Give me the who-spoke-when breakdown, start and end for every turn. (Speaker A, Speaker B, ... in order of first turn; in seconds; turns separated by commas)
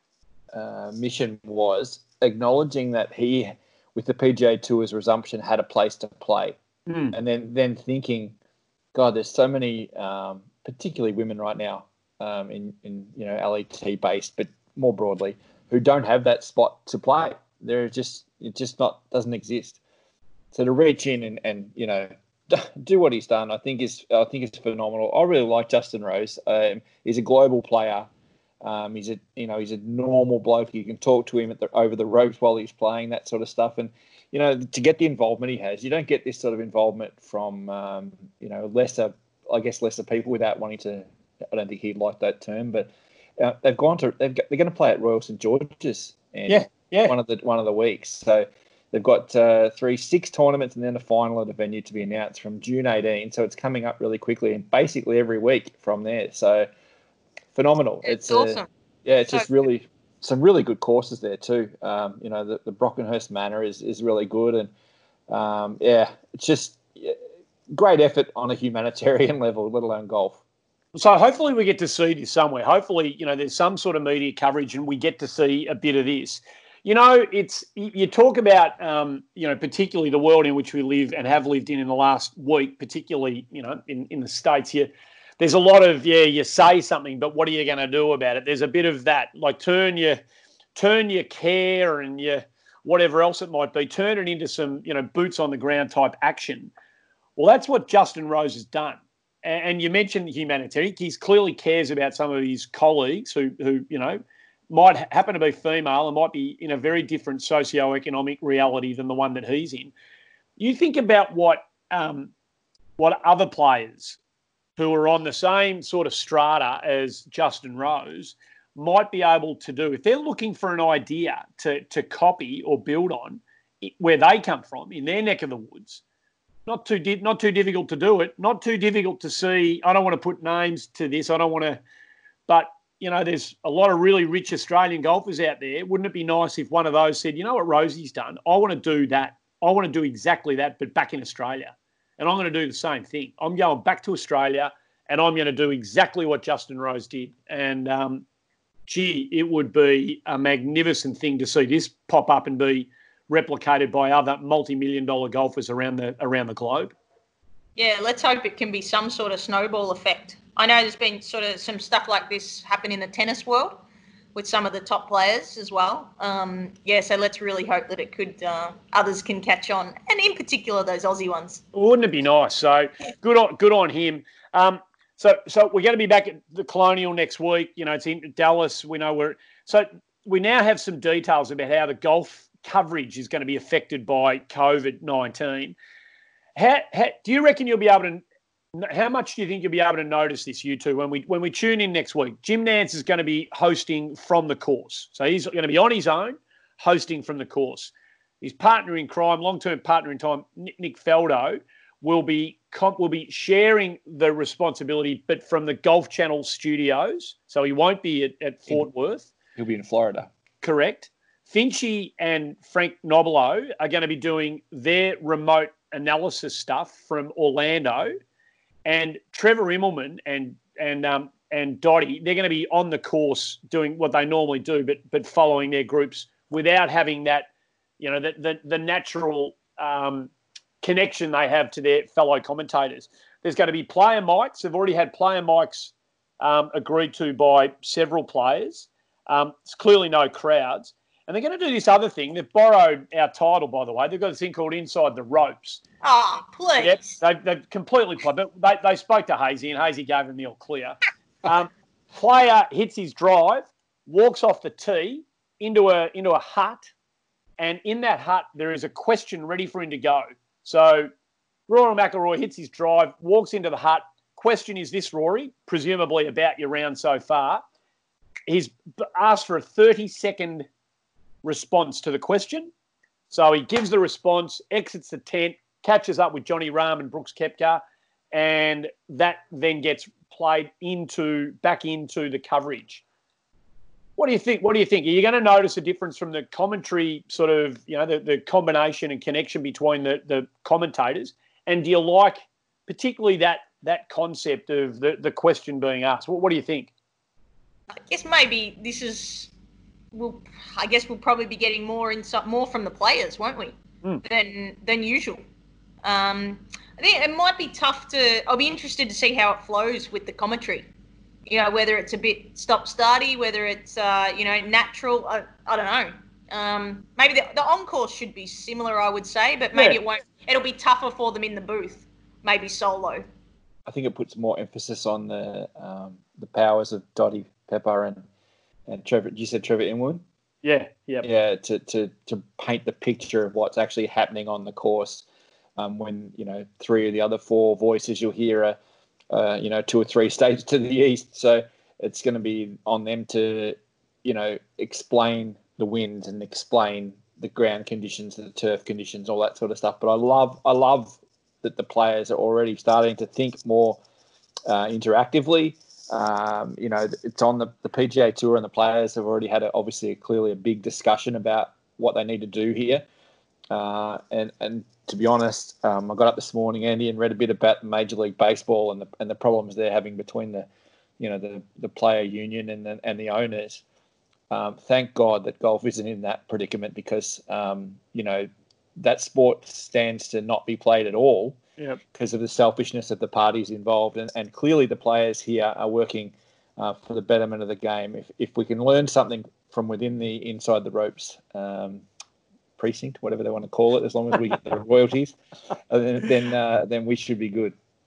Speaker A: 0.5-6.6, Speaker B: 6.9-7.2, Speaker A: 7.1-8.3, Speaker A: 8.9-19.8, Speaker A: 20.5-28.1, Speaker A: 28.6-56.7, Speaker B: 46.5-47.2, Speaker A: 57.5-64.7, Speaker C: 58.1-58.7, Speaker A: 65.3-67.2, Speaker A: 67.7-70.4, Speaker B: 70.9-90.2, Speaker B: 90.8-96.7, Speaker B: 97.4-109.9, Speaker B: 110.6-112.3, Speaker B: 113.0-114.2, Speaker B: 114.8-126.0, Speaker B: 126.7-131.8, Speaker B: 132.5-148.2, Speaker B: 148.9-156.9, Speaker C: 157.8-163.8, Speaker C: 164.3-171.6, Speaker B: 171.7-185.8, Speaker B: 186.6-188.2, Speaker B: 188.8-209.3, Speaker A: 209.6-210.3, Speaker B: 210.6-218.1, Speaker B: 218.8-227.5, Speaker B: 228.0-230.3, Speaker B: 230.8-245.8, Speaker C: 246.0-247.1, Speaker B: 246.8-256.9, Speaker B: 257.6-261.1, Speaker B: 261.7-267.6, Speaker B: 268.5-270.7, Speaker B: 271.4-272.7, Speaker B: 273.3-283.0, Speaker B: 284.2-296.9, Speaker C: 297.9-299.5, Speaker C: 300.1-305.4, Speaker C: 306.0-310.9, Speaker C: 311.5-323.2, Speaker A: 323.9-328.3, Speaker A: 328.9-330.2, Speaker B: 330.6-331.3, Speaker A: 331.2-335.2, Speaker A: 335.8-338.8, Speaker A: 339.3-354.0, Speaker A: 354.7-363.1, Speaker A: 363.7-370.7, Speaker A: 371.2-373.8, Speaker A: 374.5-381.6, Speaker A: 382.1-392.1, Speaker A: 392.8-395.4, Speaker A: 395.9-397.8